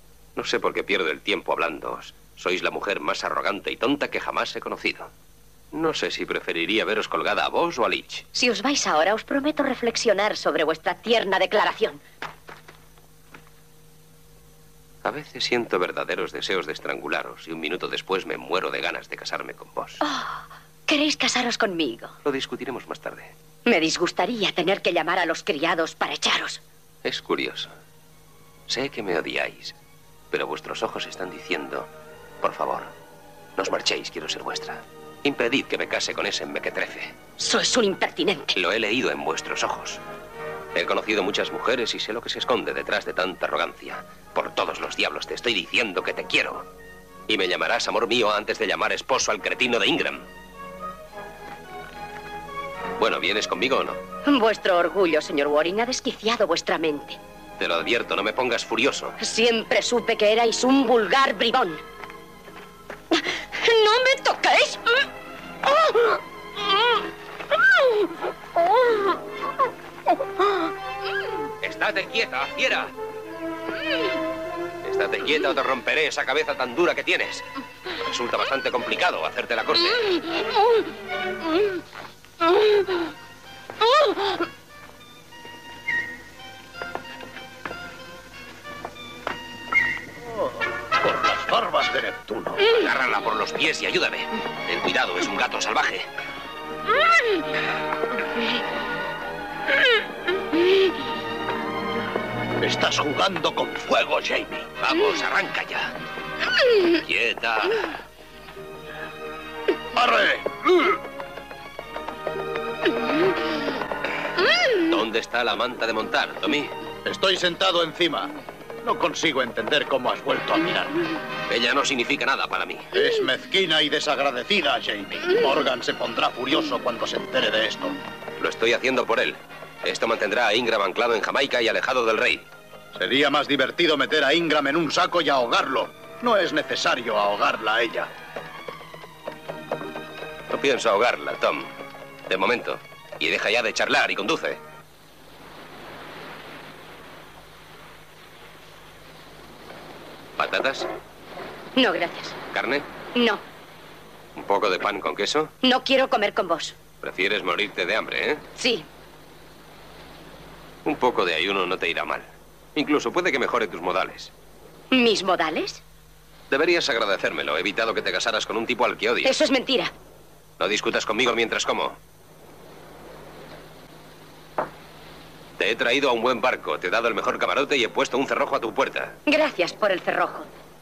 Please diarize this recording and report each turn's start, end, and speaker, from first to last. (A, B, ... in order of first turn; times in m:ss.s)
0:00.4-0:05.1 A
0:05.7-0:08.2 A
0:08.3-0:12.0 B
0:15.0-0:20.0 A
0:20.0-0:22.1 B
0:22.2-0:23.3 A
0:23.6-0:26.6 B
0:27.0-0:27.7 A
0:28.7-0:29.7 A
0:30.3-0:31.9 A
0:32.4-0:32.9 A
0:33.6-0:37.1 A
0:37.4-0:38.5 B
0:38.5-0:40.0 A
0:40.7-0:46.7 A
0:47.3-0:50.2 A
0:53.0-0:54.0 A
0:54.2-0:57.2 B
0:57.6-0:59.2 A
0:59.2-1:01.8 B
1:03.1-1:05.0 B
1:05.8-1:06.1 B
1:11.6-1:12.9 A
1:14.8-1:17.4 A
1:18.0-1:20.2 A
1:30.4-1:32.7 C
1:32.6-1:36.1 A
1:42.6-1:44.7 C
1:44.8-1:45.9 A
1:47.0-1:48.0 A
1:49.9-1:51.0 C
1:54.7-1:56.7 A
1:57.0-2:01.1 C
2:01.5-2:02.9 A
2:02.9-2:08.0 C
2:08.4-2:12.4 A
2:12.9-2:18.1 C
2:20.5-2:21.7 A
2:22.3-2:24.6 A
2:30.4-2:30.9 A
2:31.8-2:32.4 B
2:32.5-2:32.8 A
2:33.1-2:33.4 B
2:34.4-2:35.5 A
2:35.6-2:36.8 B
2:37.0-2:38.4 A
2:38.6-2:38.9 B
2:40.8-2:44.3 A
2:44.9-2:45.8 B
2:46.5-2:49.3 A
2:49.2-2:49.9 B
2:50.6-2:52.0 A
2:55.6-2:59.2 A
2:59.3-3:00.5 B